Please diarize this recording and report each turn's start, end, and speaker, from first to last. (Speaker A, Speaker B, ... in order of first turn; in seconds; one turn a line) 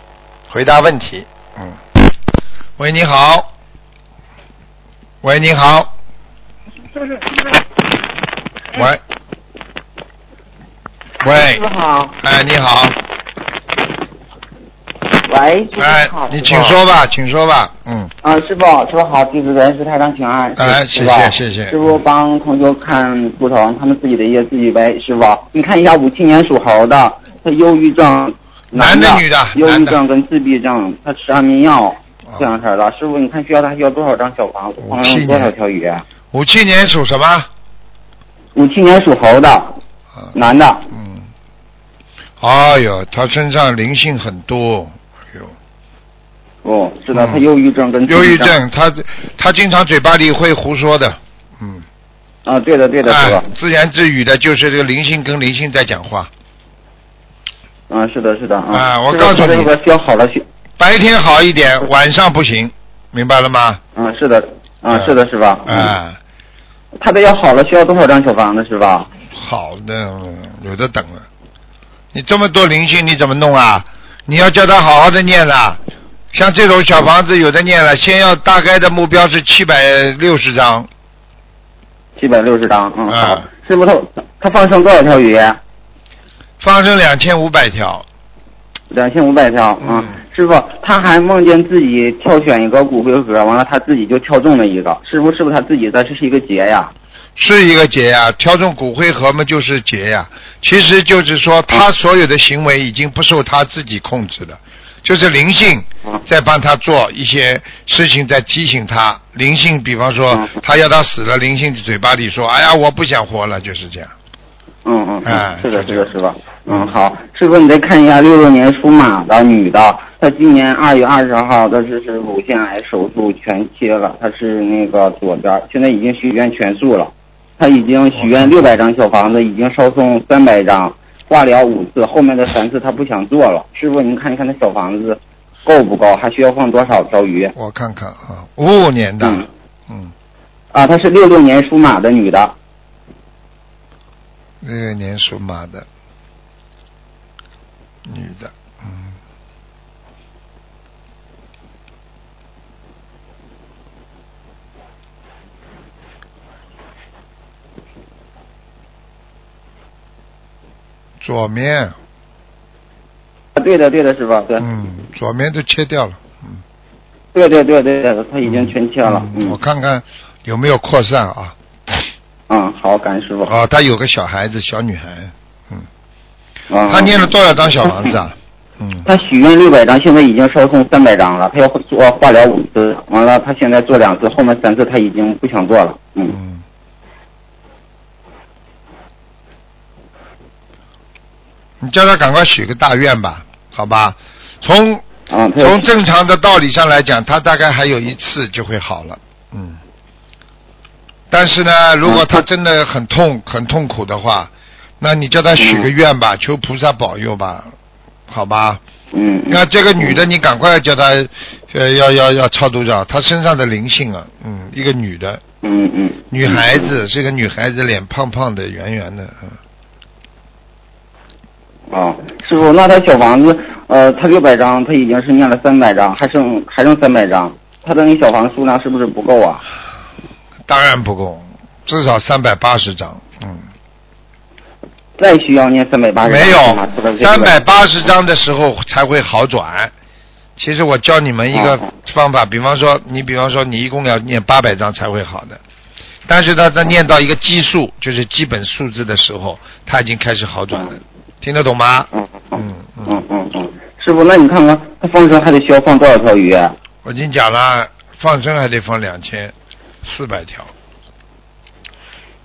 Speaker A: 0.5-1.8
Speaker A: 2.8-3.5
Speaker A: 5.2-5.9
Speaker A: 8.7-9.0
Speaker A: 11.2-12.9
Speaker B: 11.3-12.1
Speaker B: 15.2-16.8
Speaker A: 15.8-18.1
Speaker B: 18.2-36.0
Speaker A: 20.6-21.8
Speaker A: 28.7-30.0
Speaker A: 34.8-35.5
Speaker A: 36.3-37.5
Speaker B: 38.5-39.8
Speaker B: 40.3-40.9
Speaker A: 40.9-41.3
Speaker A: 42.4-45.5
Speaker B: 46.6-48.5
Speaker A: 47.1-47.4
Speaker A: 48.0-51.8
Speaker B: 52.4-53.5
Speaker A: 53.0-56.3
Speaker B: 57.9-60.4
Speaker A: 58.7-59.7
Speaker A: 60.8-63.8
Speaker B: 63.9-65.9
Speaker A: 65.7-66.2
Speaker B: 67.0-69.1
Speaker A: 69.3-71.2
Speaker A: 72.1-75.8
Speaker A: 76.3-80.9
Speaker B: 82.2-85.6
Speaker A: 83.1-83.5
Speaker A: 86.6-88.0
Speaker B: 88.9-96.9
Speaker A: 97.3-114.1
Speaker B: 114.8-137.5
Speaker A: 115.2-116.1
Speaker A: 128.2-128.5
Speaker A: 137.6-140.1
Speaker B: 140.7-142.5
Speaker A: 144.6-145.8
Speaker A: 148.1-149.2
Speaker A: 161.2-161.9
Speaker B: 163.6-164.7
Speaker A: 164.6-166.6
Speaker B: 167.3-169.6
Speaker A: 168.4-172.1
Speaker B: 172.5-173.5
Speaker A: 173.4-175.8
Speaker B: 176.7-178.1
Speaker A: 176.9-179.1
Speaker B: 179.0-186.4
Speaker A: 186.3-186.6
Speaker A: 191.8-195.0
Speaker B: 195.3-195.9
Speaker A: 195.6-199.8
Speaker A: 201.3-207.7
Speaker B: 202.0-202.4
Speaker B: 205.6-205.9
Speaker A: 208.3-208.8
Speaker B: 209.1-210.2
Speaker A: 209.5-215.4
Speaker B: 215.6-216.9
Speaker A: 216.3-219.6
Speaker B: 221.9-229.6
Speaker A: 230.7-233.7
Speaker B: 235.2-237.5
Speaker A: 236.2-239.9
Speaker A: 240.6-245.6
Speaker B: 241.5-241.8
Speaker A: 246.3-253.2
Speaker B: 252.5-256.8
Speaker A: 257.0-260.7